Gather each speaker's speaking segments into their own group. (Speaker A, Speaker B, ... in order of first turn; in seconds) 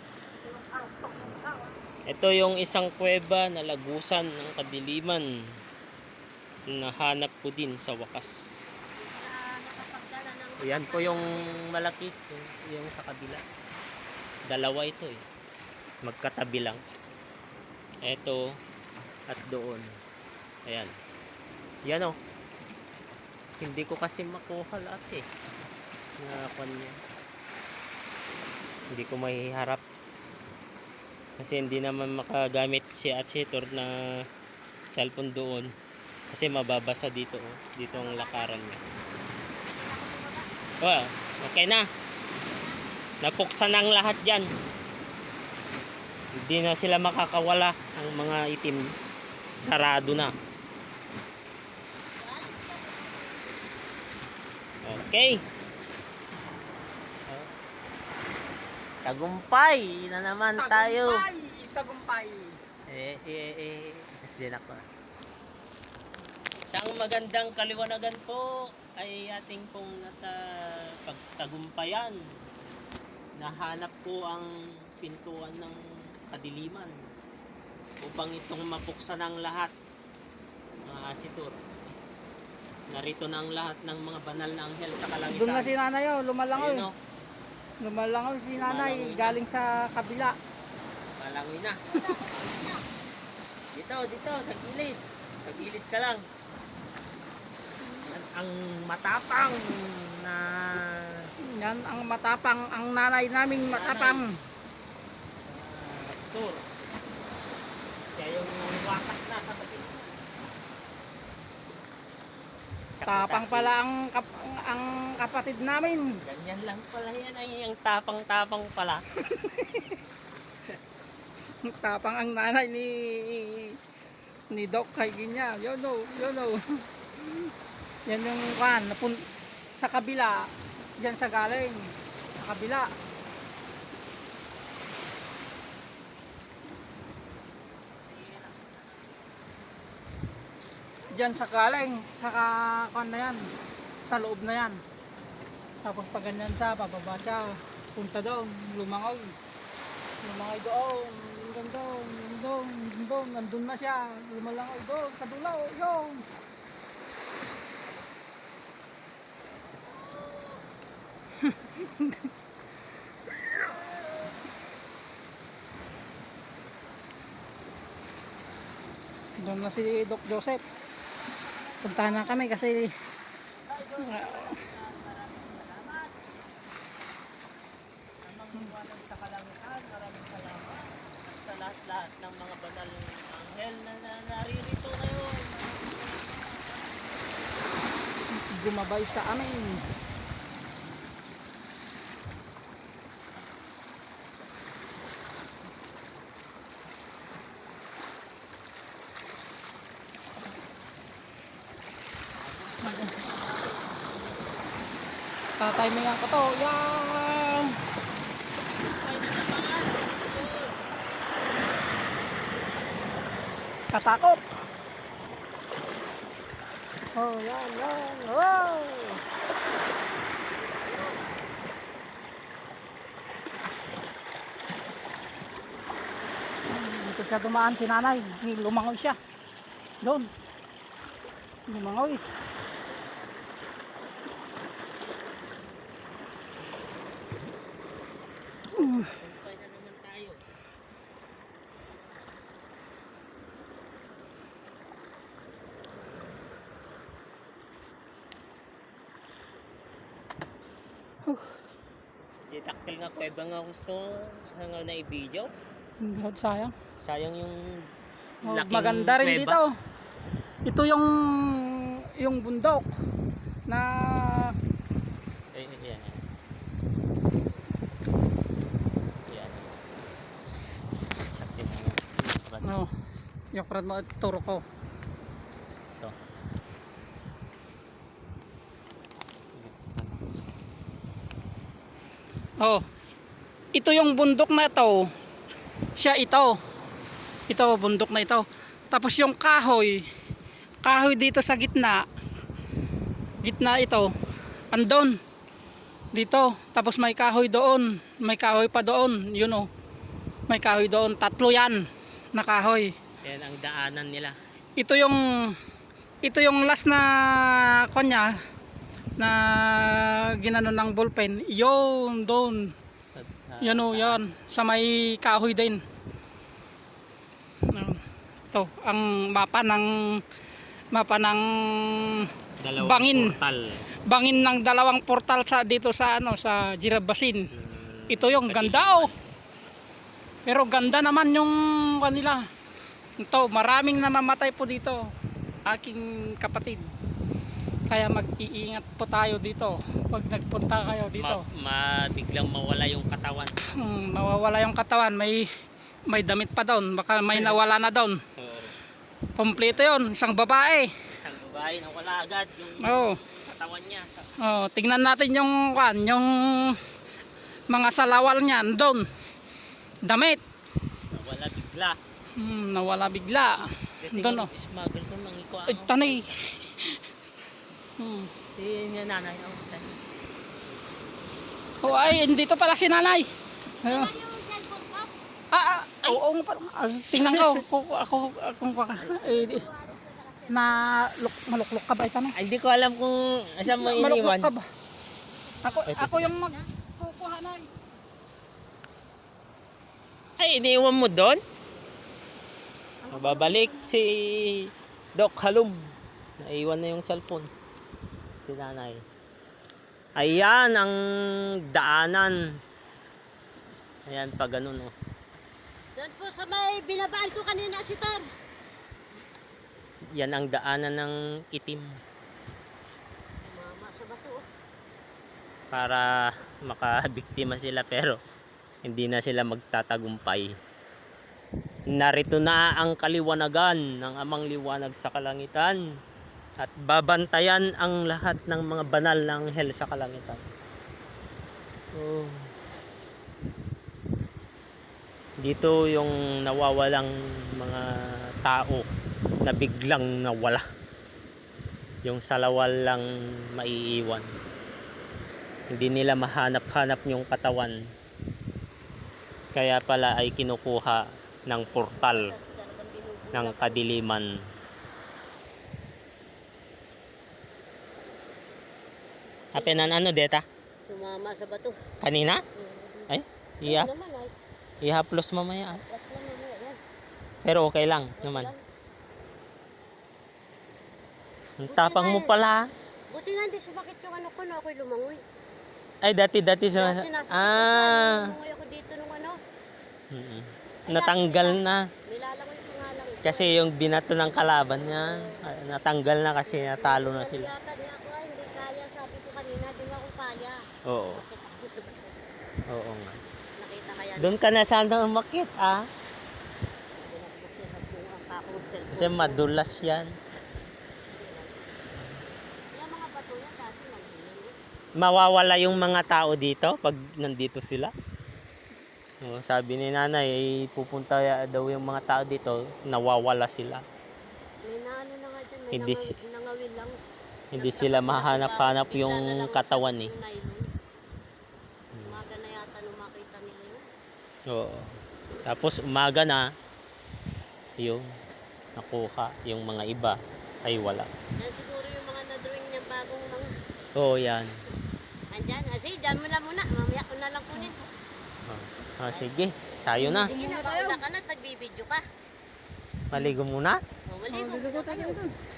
Speaker A: 0.5-1.6, 60.6-62.5, 85.3-86.9, 87.8-90.4, 101.4-104.3, 113.1-116.0, 119.4-119.6, 121.6-123.8, 124.5-126.6, 128.1-129.2, 129.8-132.9, 141.1-143.4, 144.0-144.8, 145.8-149.3, 150.2-156.2, 161.5-162.1, 169.4-170.6, 171.8-172.9, 174.0-174.5, 188.3-189.8, 202.8-203.1, 205.6-207.7, 213.9-214.4, 217.1-219.2, 226.7-229.2, 230.0-230.3, 231.7-232.2, 238.8-239.1, 251.2-251.5, 256.0-256.7, 258.4-259.7, 260.6-262.9, 263.7-264.5, 272.6-272.9, 273.5-274.6, 283.7-285.1, 286.0-286.6, 287.5-290.0, 290.8-292.1, 293.4-294.1, 294.7-295.2, 296.1-299.7, 300.5-301.8, 302.3-302.9, 304.8-305.2, 306.2-308.4, 309.2-312.7, 313.6-315.8, 317.7-318.0, 318.5-320.2, 320.9-323.4, 324.1-327.5, 328.1-329.1, 330.4-332.4, 333.2-335.0, 335.6-336.9, 337.9-341.4, 343.7-345.5, 346.1-348.2, 349.4-350.9, 352.8-353.2, 354.4-356.8, 357.7-359.1, 360.0-360.4, 362.4-364.5, 365.7-366.9, 368.0-368.3, 371.8-373.3, 373.8-374.1, 375.5-379.7, 380.5-382.3, 383.6-384.6, 385.6-387.7, 393.1-393.7, 540.0-541.0, 544.3-545.3
Speaker B: 2.1-5.2, 6.7-8.3, 10.6-13.4, 14.5-15.2, 16.0-16.8, 18.0-18.4, 19.3-19.9, 20.6-20.9, 21.9-22.1, 23.6-25.2, 26.2-26.9, 28.9-29.8, 31.4-33.9, 34.9-35.7, 36.3-38.8, 40.8-41.8, 43.2-44.5, 46.3-48.8, 49.6-50.3, 54.8-55.4, 59.0-61.2, 62.9-64.8, 66.7-72.2, 73.4-74.5, 75.0-75.8, 76.3-76.9, 78.0-79.7, 80.8-81.5, 82.9-85.7, 86.5-86.9, 88.5-89.4, 91.2-91.8, 93.7-96.2, 98.0-101.3, 103.6-104.2, 105.5-106.6, 108.2-110.2, 113.0-113.7, 116.2-119.0, 138.1-139.1, 171.2-172.8, 173.6-176.3, 178.2-187.2, 202.4-203.9, 208.8-210.7, 238.7-240.4, 252.5-255.5, 257.0-257.8, 258.4-259.6, 265.5-266.2, 269.2-269.8, 271.2-272.7, 279.5-280.5, 303.2-304.4, 313.1-314.3, 322.6-323.8, 327.5-329.1, 341.1-343.5, 348.4-348.8, 349.6-349.9, 351.2-354.3, 361.1-362.0, 364.0-366.3, 368.6-369.9, 382.3-384.5, 385.9-386.2, 390.4-391.4, 393.1-395.8, 396.4-397.5, 398.4-399.0, 400.1-400.9, 401.7-402.3, 404.1-404.9, 410.1-411.9, 415.7-418.2, 418.8-420.5, 421.9-425.8, 426.6-430.4, 431.9-432.4, 435.4-437.8, 438.4-438.9, 439.4-440.6, 442.0-444.3, 445.7-447.8, 449.5-452.3, 453.3-454.3, 459.5-460.4, 462.0-462.4, 463.1-463.9, 464.8-465.8, 467.4-468.5, 471.6-472.6, 476.0-478.2, 480.1-481.8, 483.2-487.5, 490.9-491.2, 492.7-493.2, 494.2-495.8, 498.9-500.1, 505.0-507.9, 509.2-513.8, 515.7-516.1, 517.5-520.1, 524.5-524.9, 525.4-526.5, 527.8-528.0, 528.8-531.1, 534.0-534.5, 538.5-540.3, 543.1-543.8
Speaker C: 8.9-11.6, 37.9-38.6, 39.4-40.4, 42.4-42.8, 52.2-53.7, 91.8-92.8, 373.8-375.1, 379.0-380.9, 385.6-386.6, 405.9-408.2, 413.4-414.4, 451.9-453.9, 459.6-459.9, 460.9-461.8, 462.5-463.1, 463.6-464.3, 465.7-466.8, 468.2-468.6, 471.7-472.3, 473.1-475.2, 476.7-479.4, 480.9-483.6, 484.6-485.4, 486.4-490.6, 491.1-492.2, 493.6-494.4, 497.0-499.5, 501.1-501.6, 502.7-504.5, 514.6-516.9, 517.5-520.6, 522.0-523.8, 531.4-533.5, 535.3-537.8, 540.0-542.0, 544.1-545.2